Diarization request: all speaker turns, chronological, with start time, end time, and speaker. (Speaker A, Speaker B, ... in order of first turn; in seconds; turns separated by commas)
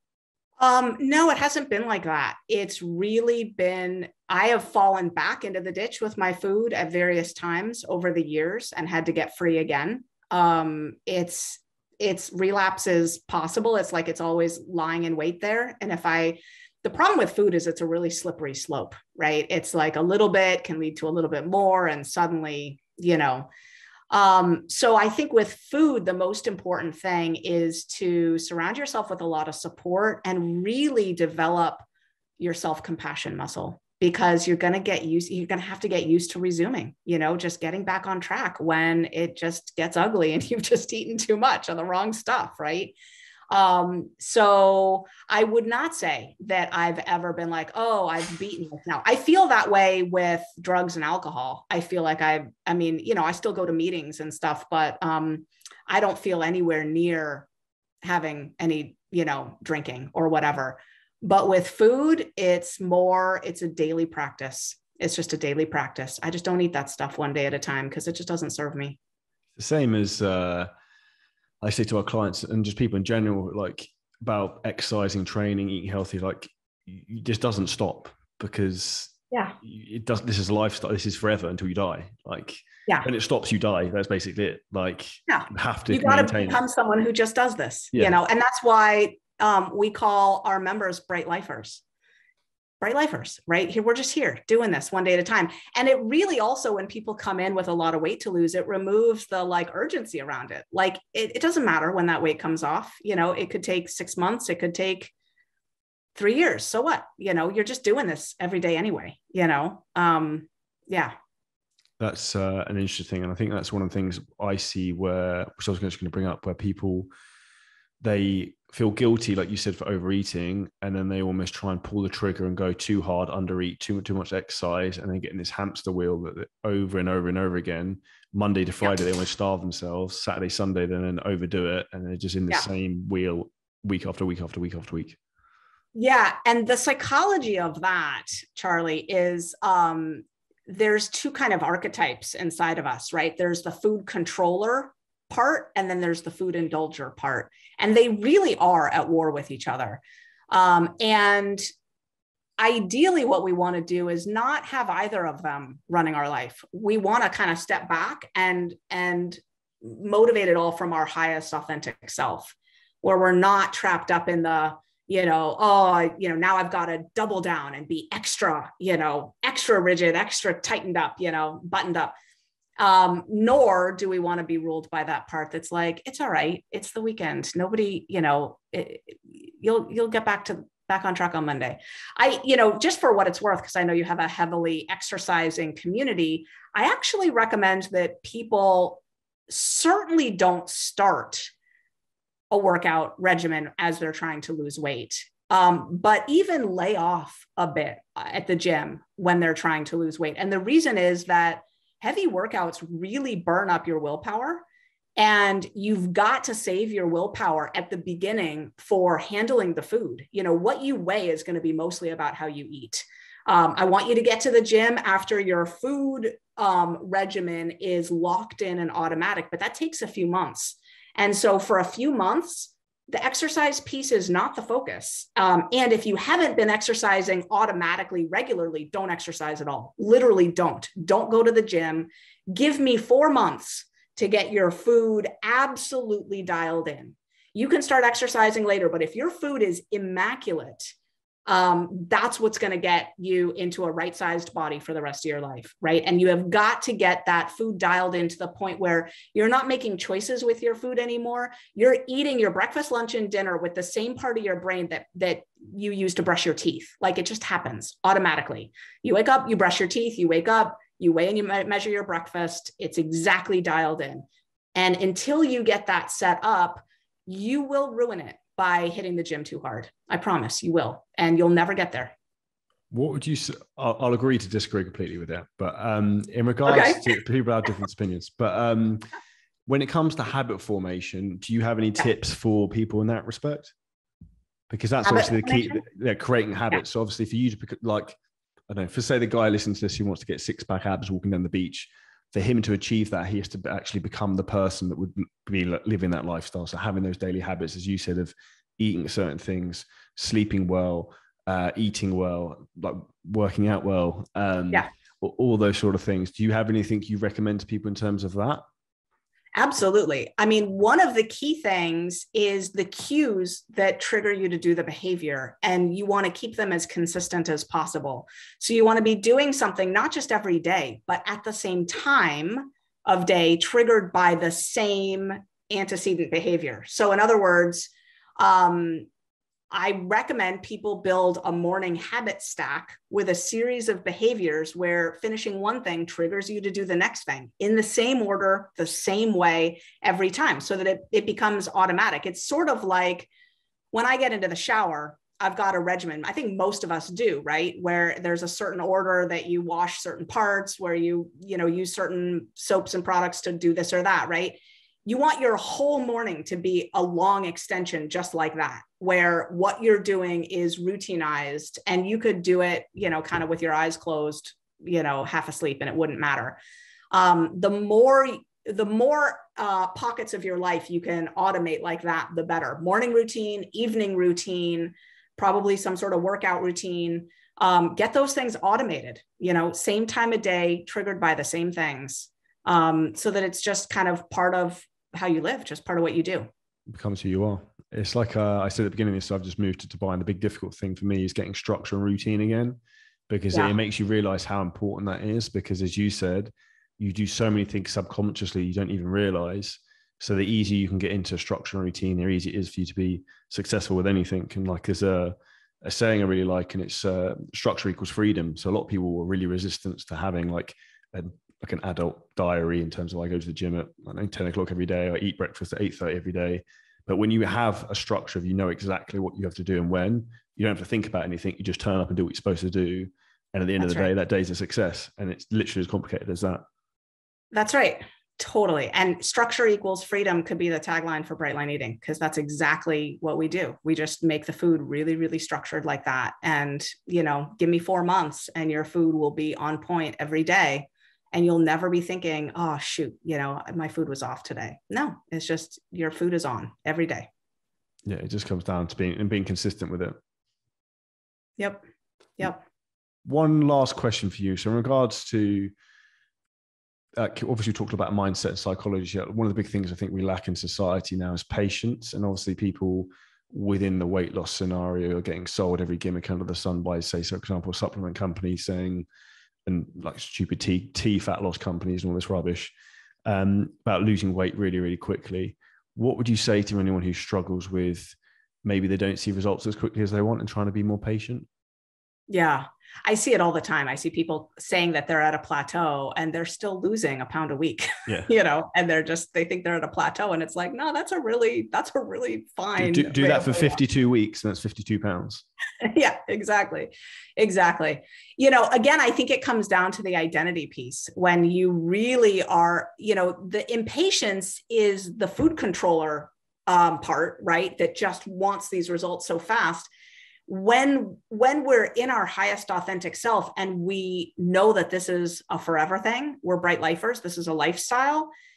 Speaker A: 0.6-23.5, Speaker A: 24.1-31.9, Speaker A: 32.4-43.0, Speaker A: 43.5-57.5, Speaker A: 58.0-69.0, Speaker B: 69.6-70.7, Speaker B: 71.6-86.6, Speaker A: 79.3-79.6, Speaker A: 85.3-91.8, Speaker A: 92.8-105.1, Speaker A: 106.1-111.1, Speaker B: 112.0-117.1, Speaker B: 118.0-135.2, Speaker A: 135.9-151.6, Speaker A: 152.6-172.1, Speaker A: 172.8-191.5, Speaker A: 192.5-204.6, Speaker A: 205.2-240.9, Speaker A: 241.5-272.1, Speaker B: 272.9-279.0, Speaker A: 276.6-277.0, Speaker B: 279.7-283.7, Speaker B: 284.7-288.2, Speaker A: 285.0-285.8, Speaker B: 288.7-308.6, Speaker A: 309.5-329.1, Speaker A: 329.7-343.3, Speaker A: 343.9-366.6, Speaker A: 367.1-386.5, Speaker B: 386.9-392.8, Speaker B: 393.3-426.6, Speaker A: 423.8-424.1, Speaker A: 427.5-447.3, Speaker B: 448.1-450.1, Speaker A: 451.6-451.8, Speaker B: 453.2-455.7, Speaker B: 457.2-469.1, Speaker B: 469.6-472.7, Speaker B: 473.2-481.5, Speaker A: 482.3-493.8, Speaker B: 492.8-495.5, Speaker A: 495.8-509.9, Speaker A: 510.5-518.3